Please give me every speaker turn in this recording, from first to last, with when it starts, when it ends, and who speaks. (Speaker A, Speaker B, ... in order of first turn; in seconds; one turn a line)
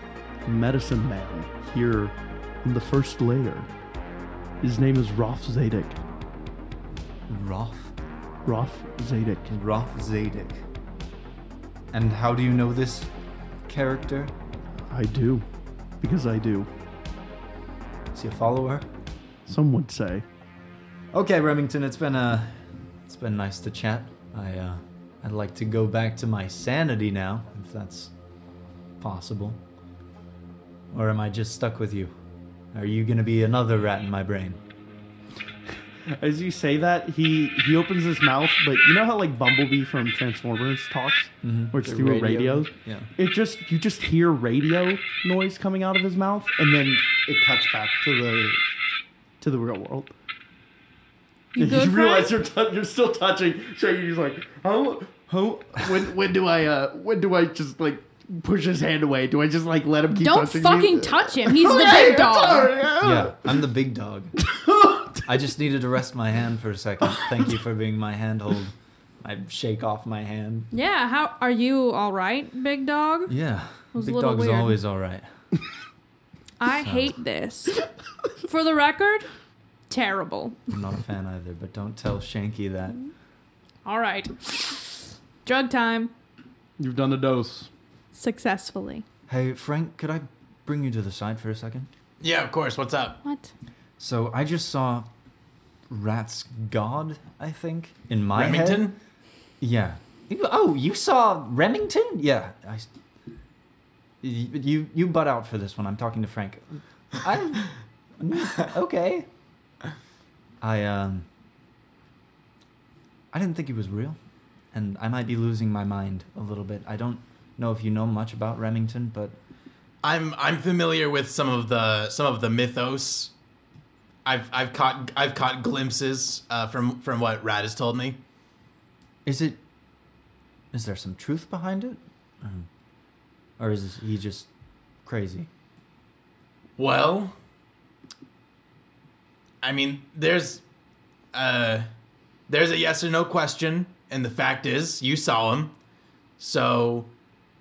Speaker A: 0.5-3.7
Speaker A: 4.6-6.0
Speaker B: 7.3-7.9
Speaker A: 8.4-9.5
Speaker B: 9.5-10.6
Speaker B: 11.9-13.1
Speaker B: 13.7-14.3
Speaker A: 14.9-15.4
Speaker A: 16.0-16.7
Speaker B: 18.1-18.9
Speaker A: 19.5-20.2
Speaker B: 21.1-28.1
Speaker B: 29.0-29.6
Speaker B: 30.9-32.1
Speaker B: 32.7-34.6
Speaker A: 36.1-48.6
Speaker B: 41.4-43.1
Speaker A: 49.4-50.1
Speaker C: 51.5-52.3
Speaker A: 51.6-63.4
Speaker C: 60.1-62.8
Speaker B: 63.0-64.3
Speaker A: 64.5-65.2
Speaker B: 65.2-70.7
Speaker C: 70.7-73.3
Speaker B: 73.3-75.3
Speaker C: 73.9-74.8
Speaker C: 76.6-77.8
Speaker B: 76.8-77.2
Speaker C: 78.4-79.3
Speaker C: 79.9-80.7
Speaker B: 80.7-83.0
Speaker C: 83.8-86.1
Speaker A: 86.8-87.7
Speaker C: 88.1-89.0
Speaker B: 89.3-91.9
Speaker D: 92.2-93.2
Speaker C: 93.2-93.5
Speaker B: 94.0-95.1
Speaker B: 95.9-98.9
Speaker D: 98.3-99.0
Speaker B: 99.6-102.9
Speaker B: 104.2-109.3
Speaker B: 110.6-111.3
Speaker B: 113.3-114.2
Speaker B: 114.7-119.4
Speaker D: 120.0-123.3
Speaker D: 124.2-128.2
Speaker B: 129.2-129.6
Speaker B: 130.7-132.7
Speaker B: 133.6-134.5
Speaker B: 135.1-135.5
Speaker D: 136.8-137.3
Speaker D: 139.6-140.6
Speaker D: 141.3-141.9
Speaker D: 142.5-145.7
Speaker D: 146.4-147.1